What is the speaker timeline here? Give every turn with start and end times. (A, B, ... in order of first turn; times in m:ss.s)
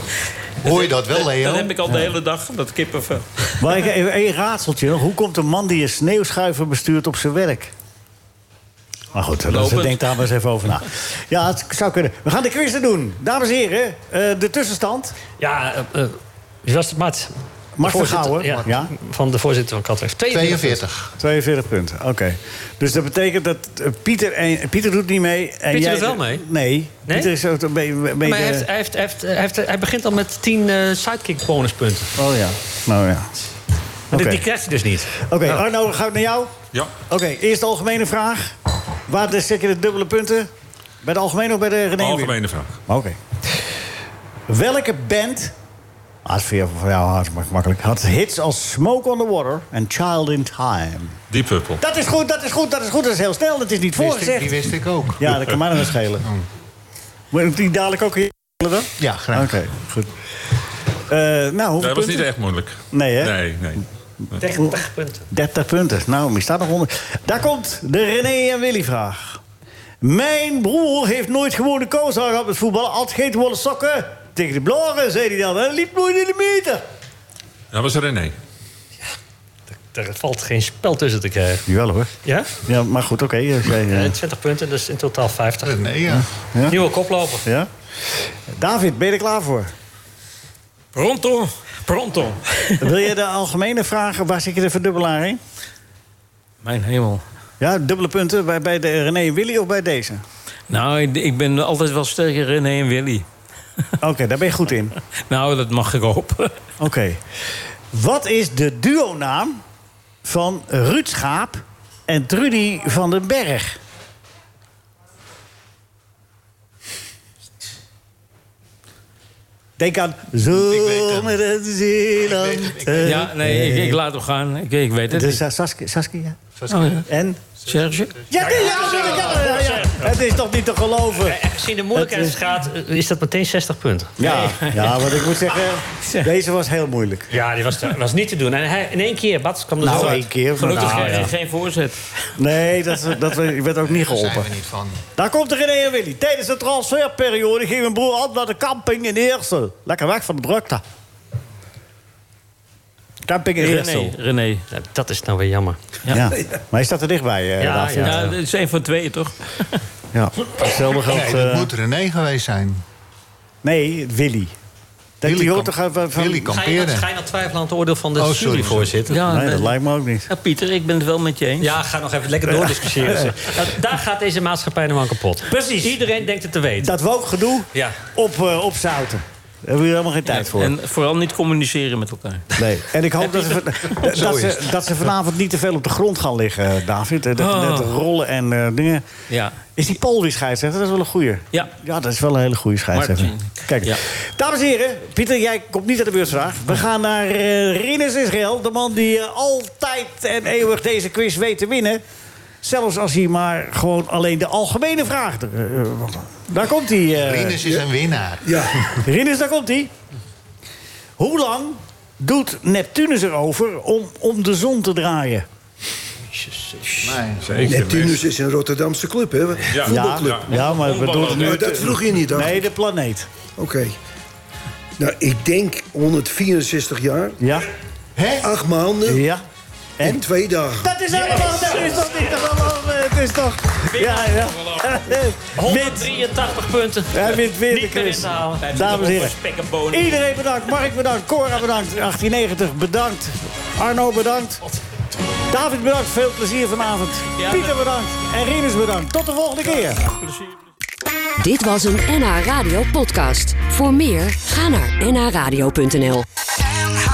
0:00.6-0:01.7 A
0:00.6-0:03.8 B
0:03.6-0:07.7 C
0:09.1-0:15.2 C
0:09.5-0:10.2 B
0:15.4-0:20.8 D
0:17.8-0:18.9 C
0:20.3-0:21.2 A
0:21.2-0:28.7 C
0:25.7-0:26.4 D
0:27.1-0:27.3 D
0:28.2-0:32.1 D
0:32.2-0:33.3 C
0:34.1-0:35.6 D
0:34.1-0:34.4 C
0:35.2-0:36.5 C
0:37.1-0:38.5 C
0:39.1-0:40.5 C
0:41.0-0:43.2 C
0:42.0-0:42.8 E
0:44.5-0:45.5 C
0:46.2-0:51.2 C
0:51.3-0:51.8 E
0:51.8-0:54.7 C
0:54.0-0:55.3 A
0:55.2-0:56.3 C
0:57.3-1:00.1 C
0:59.0-0:59.6 A
1:01.1-1:02.3 C
1:01.8-1:03.8 E
1:02.9-1:03.3 C
1:04.4-1:05.2 D
1:05.3-1:09.4 C
1:10.0-1:16.8 C
1:17.7-1:18.4 E
1:19.7-1:21.6 D
1:21.7-1:24.1 C
1:22.2-1:22.6 D
1:23.9-1:25.8 D
1:25.6-1:26.3 A
1:26.7-1:27.4 D
1:27.4-1:29.7 C
1:30.9-1:33.0 B
1:32.8-1:35.4 C
1:36.6-1:37.2 B
1:37.6-1:40.2 C
1:40.7-1:43.2 B
1:44.0-1:44.9 C
1:45.3-1:46.5 B
1:46.8-1:47.2 C
1:47.9-1:49.6 C
1:50.2-1:53.8 C
1:59.8-2:04.0 C
2:00.5-2:01.4 A
2:02.2-2:03.3 A
2:03.0-2:05.4 B
2:05.1-2:06.4 C
2:06.6-2:07.0 A
2:06.7-2:07.0 B
2:07.1-2:07.4 C
2:07.6-2:08.2 B
2:08.3-2:11.4 C
2:08.3-2:10.0 D
2:11.2-2:14.1 D
2:11.9-2:12.4 C
2:14.2-2:17.3 C
2:14.2-2:15.2 B
2:15.9-2:16.3 B
2:17.3-2:21.3 D
2:19.8-2:21.3 C
2:20.6-2:22.0 B
2:22.4-2:24.5 C
2:23.8-2:25.0 A
2:25.2-2:30.8 C
2:33.2-2:34.2 C
2:33.6-2:34.7 B
2:34.7-2:35.8 D
2:36.1-2:38.3 C
2:37.6-2:38.4 D
2:38.0-2:39.8 B
2:40.1-2:41.7 C
2:41.1-2:42.8 A
2:43.6-2:44.5 C
2:45.2-2:46.5 C
2:45.2-2:47.1 A
2:46.4-2:49.2 D
2:48.2-2:48.9 A
2:49.1-2:51.7 B
2:49.3-2:50.3 C
2:51.6-2:57.0 D
2:52.5-2:53.4 C
2:55.5-2:56.0 C
2:56.8-3:00.7 C
2:57.7-2:58.0 D
3:00.3-3:02.5 B
3:02.6-3:09.0 C
3:03.6-3:04.5 B
3:07.4-3:08.0 B
3:09.3-3:09.6 B
3:09.8-3:22.0 C
3:12.9-3:14.0 B
3:22.6-3:27.6 C
3:27.2-3:28.7 A
3:28.4-3:28.9 F
3:29.0-3:29.9 C
3:31.2-3:35.5 C
3:37.0-3:37.6 A
3:37.4-3:38.3 E
3:37.6-3:40.6 F
3:39.7-3:42.0 E
3:39.9-3:43.3 C
3:41.3-3:42.7 F
3:43.6-3:44.0 F
3:45.0-3:47.4 F
3:47.4-3:47.7 C
3:48.2-3:48.5 A
3:48.4-3:49.2 F
3:49.1-3:49.4 C
3:50.0-3:50.3 C
3:50.0-3:50.9 F
3:50.8-3:56.1 C
3:51.3-3:52.1 D
3:53.9-3:55.0 B
3:55.6-3:58.6 D
3:57.1-3:59.4 C
3:58.6-4:00.1 B
3:59.9-4:04.6 C
4:05.5-4:10.0 C
4:07.4-4:07.7 B
4:09.7-4:10.6 B
4:11.4-4:16.2 G